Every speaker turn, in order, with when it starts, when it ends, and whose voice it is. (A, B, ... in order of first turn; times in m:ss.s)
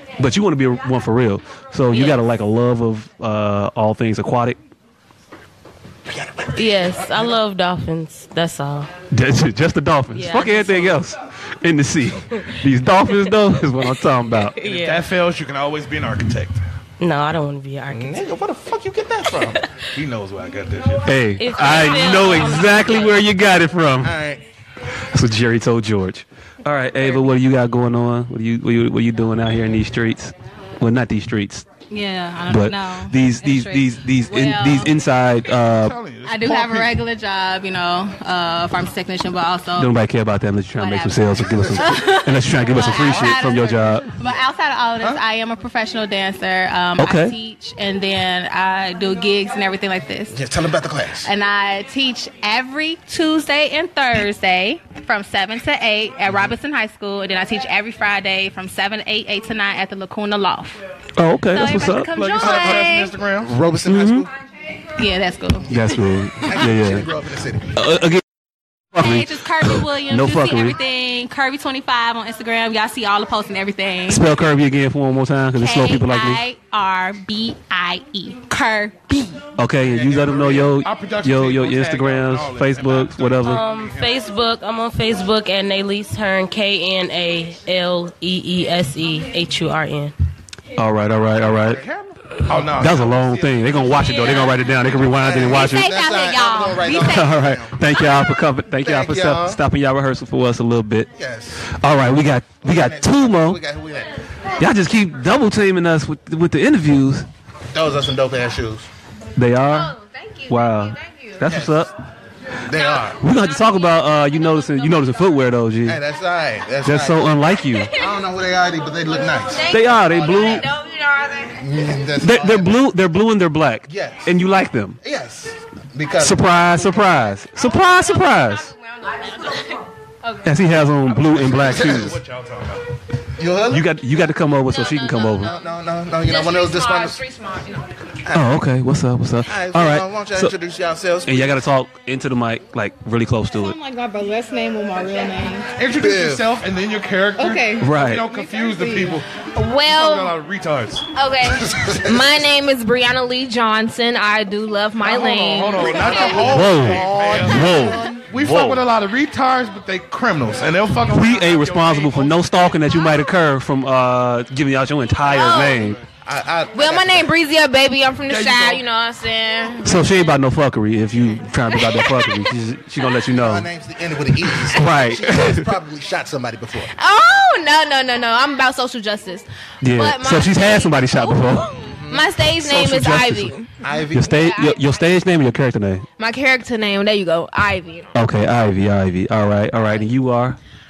0:00.2-0:04.6 A
0:06.1-0:07.4 B
0:06.6-0:08.9 C
0:09.1-0:14.6 A
0:10.1-0:11.0 C
0:14.2-0:15.0 C
0:14.6-0:16.6 D
0:17.0-0:18.2 C
0:17.9-0:19.6 B
0:19.4-0:19.6 C
0:19.9-0:21.3 D
0:21.0-0:24.1 A
0:21.4-0:23.2 C
0:24.0-0:24.4 B
0:25.1-0:31.6 A
0:31.9-0:34.9 E
0:32.5-0:35.9 A
0:35.5-0:37.0 D
0:36.2-0:39.9 E
0:39.8-0:44.1 A
0:40.8-0:50.4 E
0:41.4-0:41.8 B
0:42.9-0:43.3 D
0:47.0-0:47.3 A
0:50.3-0:51.3 B
0:51.2-1:00.8 E
1:01.2-1:02.5 A
1:01.5-1:03.1 E
1:02.1-1:03.6 D
1:03.4-1:04.3 B
1:03.8-1:04.3 A
1:05.0-1:05.8 E
1:05.7-1:07.1 A
1:06.4-1:07.8 B
1:07.7-1:08.2 A
1:08.9-1:10.8 A
1:09.0-1:14.2 E
1:14.1-1:16.4 A
1:15.6-1:19.4 E
1:19.6-1:23.6 A
1:19.8-1:24.1 D
1:23.4-1:30.1 C
1:30.8-1:31.8 A
1:31.4-1:35.0 D
1:32.6-1:35.9 A
1:35.1-1:37.8 B
1:35.6-1:37.2 E
1:36.9-1:41.1 A
1:38.8-1:39.6 B
1:41.2-1:42.1 B
1:41.7-1:43.6 A
1:42.6-1:44.1 B
1:44.6-1:47.3 A
1:47.7-1:48.9 B
1:49.4-1:49.9 A
1:49.7-1:51.4 F
1:50.5-1:51.9 A
1:51.4-1:51.9 B
1:52.6-1:53.2 B
1:52.8-1:53.8 F
1:53.2-1:56.0 A
1:55.8-2:00.6 B
1:56.8-1:57.9 A
1:59.5-2:01.6 F
1:59.7-2:00.6 A
2:01.6-2:02.8 B
2:02.2-2:05.0 A
2:03.9-2:04.4 B
2:05.0-2:07.3 B
2:06.2-2:08.7 A
2:07.8-2:09.6 F
2:10.2-2:10.5 F
2:10.4-2:12.2 A
2:11.1-2:12.9 D
2:11.6-2:12.1 B
2:13.4-2:13.9 B
2:13.7-2:15.5 A
2:14.7-2:15.5 F
2:15.3-2:17.2 B
2:16.2-2:17.8 F
2:18.2-2:18.5 B
2:18.3-2:20.5 A
2:19.4-2:21.6 B
2:21.2-2:23.8 A
2:23.6-2:25.7 E
2:25.8-2:31.0 D
2:26.0-2:26.4 B
2:27.4-2:29.2 E
2:27.8-2:28.3 A
2:29.5-2:30.3 F
2:31.1-2:36.5 F
2:31.6-2:32.2 B
2:35.0-2:42.9 D
2:35.8-2:38.2 B
2:36.4-2:38.8 A
2:41.1-2:46.0 A
2:45.3-2:45.9 F
2:46.2-2:47.3 B
2:46.7-2:50.3 F
2:48.3-2:48.8 D
2:49.8-2:53.7 A
2:51.7-2:52.3 F
2:53.3-2:56.9 B
2:54.7-2:55.7 A
2:56.9-3:03.7 F
2:59.8-3:01.7 A
3:02.0-3:02.4 B
3:02.6-3:03.5 A
3:03.8-3:04.5 B
3:04.1-3:06.1 A
3:04.3-3:05.0 F
3:06.2-3:08.1 F
3:08.1-3:10.6 A